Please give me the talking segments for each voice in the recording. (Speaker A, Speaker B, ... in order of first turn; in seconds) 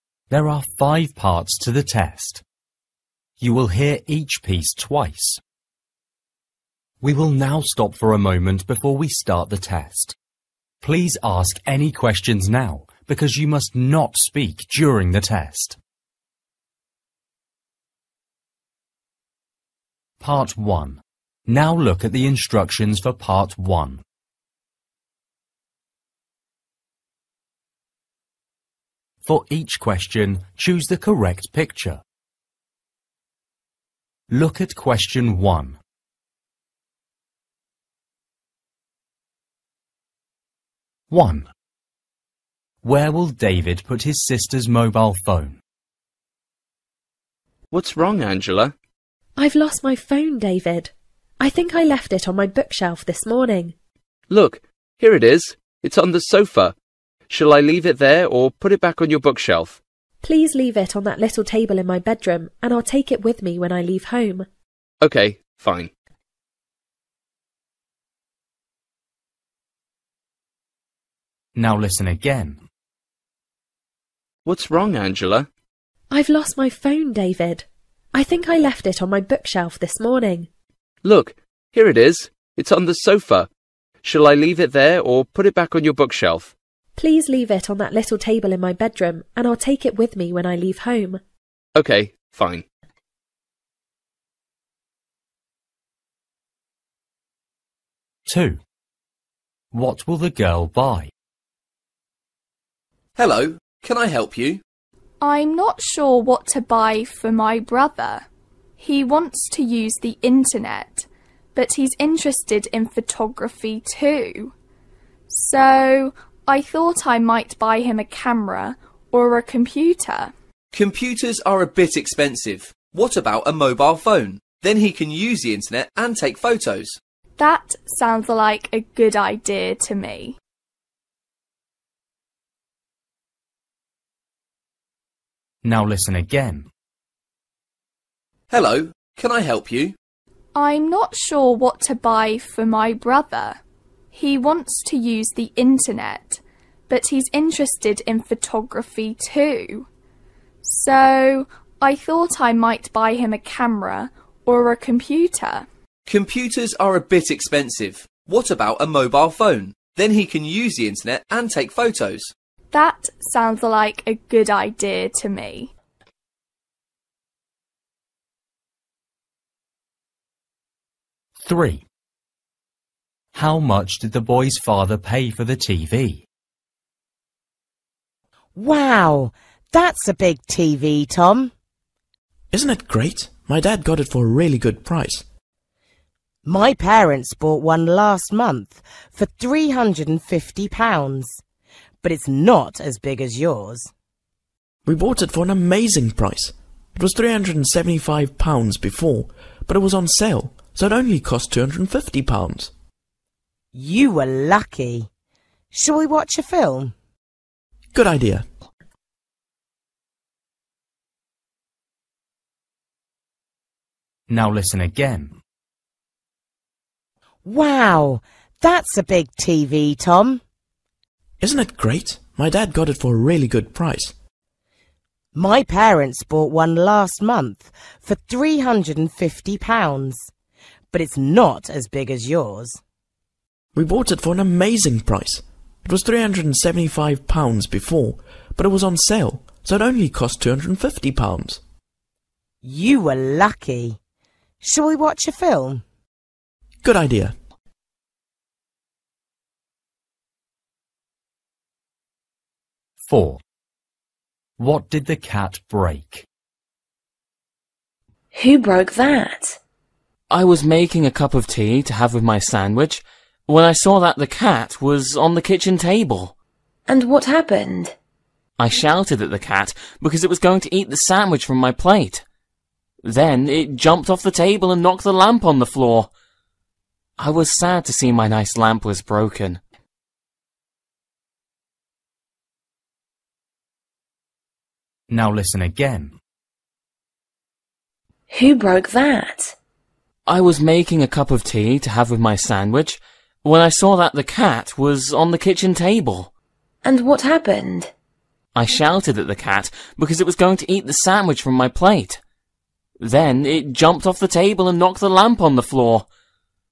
Speaker A: 0.3-2.4, 3.4-5.4, 7.0-10.2, 10.8-15.8, 20.2-24.0, 29.2-32.0, 34.3-35.8, 41.1-41.5, 42.8-45.6, 71.5-72.6, 98.3-98.6, 99.7-101.1, 135.6-136.7, 171.4-171.8, 173.3-176.2, 214.3-215.3, 253.0-253.4, 254.6-256.2, 285.1-286.1
Speaker B: 47.7-48.7, 54.3-56.7, 57.3-59.8, 65.0-65.9, 74.4-75.5, 81.0-83.5, 84.0-86.5, 91.7-92.7
Speaker C: 49.4-53.7, 60.2-64.5, 76.1-80.5, 87.0-91.2
Speaker D: 103.2-104.6, 120.7-127.0, 138.5-139.9, 156.1-162.3
Speaker E: 105.2-108.2, 108.8-114.5, 115.3-120.3, 127.4-130.4, 140.5-143.6, 144.1-149.9, 150.6-155.7, 162.7-165.7
Speaker F: 178.6-181.5, 186.4-191.4, 192.0-193.9, 203.7-205.1, 205.7-206.9, 217.4-220.4, 225.3-230.3, 230.9-232.8, 242.6-244.0, 244.6-245.8
Speaker G: 182.5-185.2, 194.8-202.7, 207.9-208.4, 221.4-224.1, 233.7-241.6, 246.8-247.3
Speaker H: 258.3-259.6, 266.9-267.9, 288.3-289.5, 296.8-297.9
Speaker I: 260.3-266.3, 268.6-272.2, 273.0-276.1, 277.2-279.6, 290.3-296.3, 298.6-302.2, 303.0-306.1